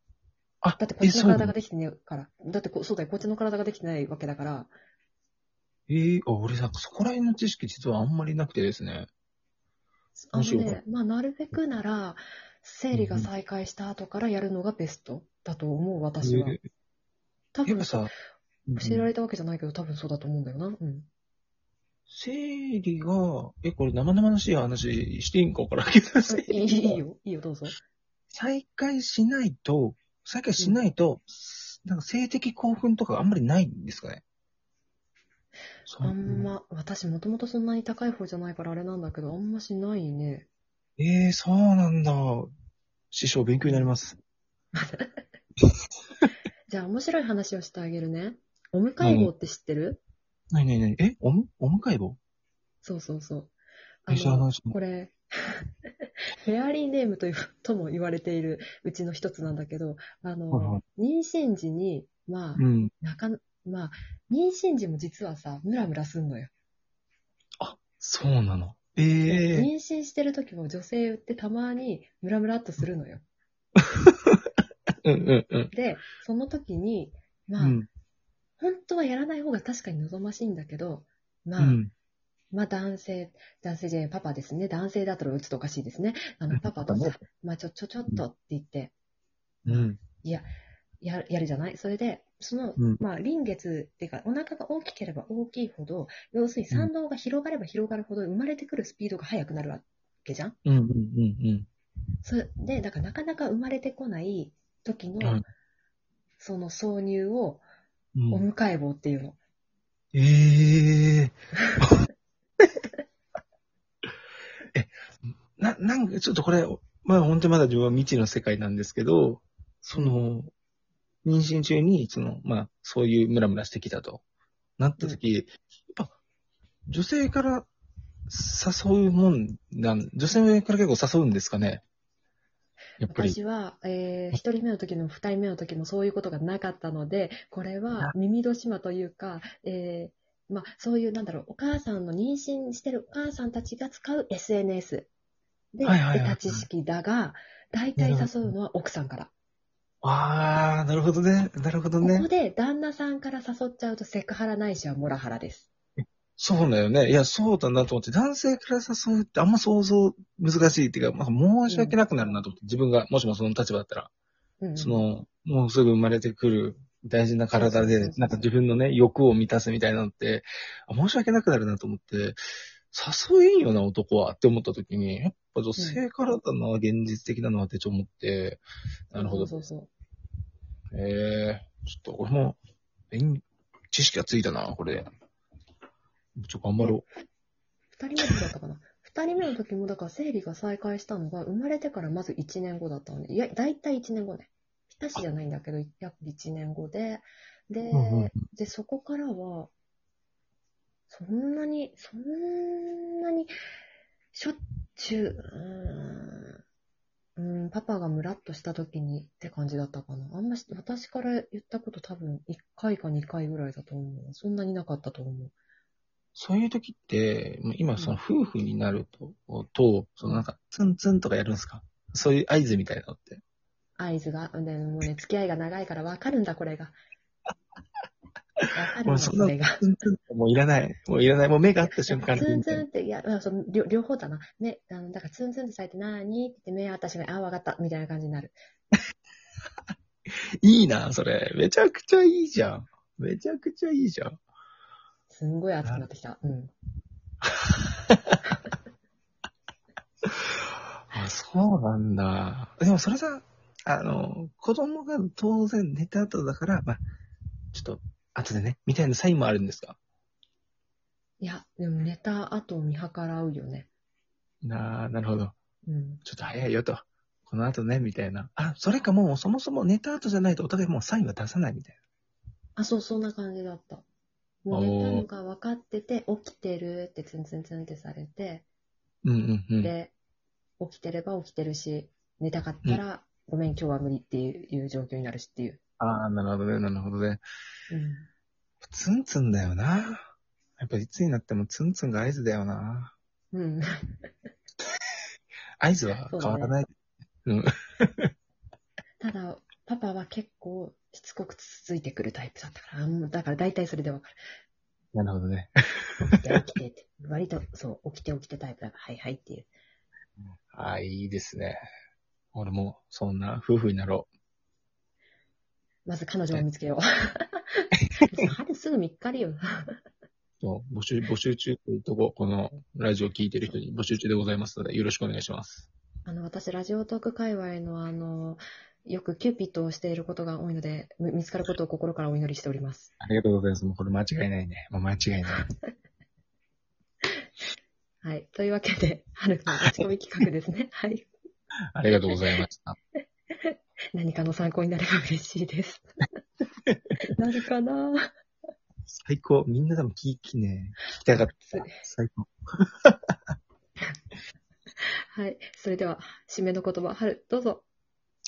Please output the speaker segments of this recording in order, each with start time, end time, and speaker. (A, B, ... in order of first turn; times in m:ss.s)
0:00.6-0:01.5 A
0:00.8-0:04.7 B
0:05.9-0:09.1 A
0:10.2-0:16.6 B
0:10.3-0:10.8 A
0:12.9-0:13.3 A
0:16.2-0:16.6 A
0:17.6-0:18.1 B
0:17.6-0:18.1 A
0:18.7-0:19.1 A
0:18.8-0:21.1 B
0:22.1-0:27.0 A
0:26.3-0:27.8 B
0:28.3-0:34.2 A
0:30.6-0:30.8 B
0:35.9-0:36.5 A
0:36.0-0:40.5 B
0:41.0-0:42.5 A
0:43.1-0:44.2 A
0:43.7-0:43.9 B
0:44.7-0:45.2 B
0:46.7-0:50.0 B
0:49.0-0:49.3 A
0:50.5-0:52.2 A
0:52.8-0:53.5 B
0:54.1-1:06.5 B
0:54.1-0:54.8 A
1:00.5-1:00.8 A
1:02.6-1:02.9 A
1:07.6-1:09.7 A
1:09.3-1:13.2 B
1:14.0-1:14.4 A
1:15.0-1:15.7 A
1:15.7-1:17.8 B
1:17.6-1:17.9 A
1:18.6-1:21.8 B
1:21.6-1:21.9 A
1:22.5-1:28.9 B
1:26.5-1:27.2 A
1:29.6-1:30.0 A
1:29.6-1:30.5 B
1:31.0-1:40.6 B
1:40.6-1:41.7 A
1:42.2-1:45.4 B
1:46.4-1:47.6 B
1:48.2-1:48.5 A
1:48.3-1:49.4 B
1:50.1-1:52.0 A
1:55.6-2:00.5 A
1:59.9-2:00.2 B
2:01.2-2:04.2 A
2:04.8-2:06.1 A
2:06.9-2:07.7 A
2:08.3-2:11.8 A
2:13.0-2:13.4 A
2:13.1-2:25.1 B
2:25.7-2:29.3 B
2:25.8-2:26.7 A
2:28.0-2:28.4 A
2:30.0-2:32.3 A
2:32.0-2:35.7 B
2:36.4-2:44.1 A
2:41.7-2:42.0 B
2:44.6-2:45.0 B
2:44.8-2:52.4 A
2:47.5-2:48.5 B
2:52.9-2:58.6 A
2:55.8-2:56.0 B
2:59.1-2:59.9 B
2:59.1-2:59.5 A
3:00.9-3:02.6 A
3:03.1-3:05.1 A
3:06.4-3:07.0 A
3:08.0-3:19.7 B
3:17.9-3:18.4 A
3:21.1-3:23.5 B
3:24.3-3:26.6 B
3:27.4-3:35.5 B
3:36.4-3:43.4 A
3:38.0-3:38.2 B
3:40.2-3:40.5 B
3:44.0-3:47.0 B
3:48.7-3:49.8 B
3:49.0-3:52.8 A
3:51.8-3:58.6 B
4:00.6-4:04.4 A
4:05.3-4:06.7 B
4:07.5-4:08.4 A
4:11.1-4:17.0 A
4:17.7-4:20.0 A
4:21.4-4:23.9 B
4:24.6-4:25.6 A
4:25.9-4:26.2 B
4:26.2-4:32.0 A
4:32.8-4:34.0 B
4:34.6-4:38.7 B
4:34.7-4:35.2 A
4:39.2-4:39.9 A
4:39.8-4:40.1 B
4:40.8-4:45.8 B
4:46.0-4:47.4 A
4:47.9-4:48.3 B
4:48.8-4:50.2 A
4:50.8-4:53.2 A
4:53.5-4:54.3 B
4:55.8-4:56.9 A
4:56.3-4:56.8 B
4:57.4-4:58.3 A
4:59.2-5:04.4 B
5:05.1-5:06.6 A
5:06.3-5:09.7 B
5:10.7-5:11.8 A
5:12.5-5:14.3 A
5:16.1-5:20.0 B
5:20.6-5:25.9 A
5:26.3-5:33.1 B
5:33.2-5:35.6 A
5:38.2-5:41.3 B
5:42.0-5:43.0 A
5:43.5-5:46.2 B
5:47.3-5:48.3 B
5:49.1-5:53.2 A
5:51.4-5:52.0 B
5:55.3-5:57.8 B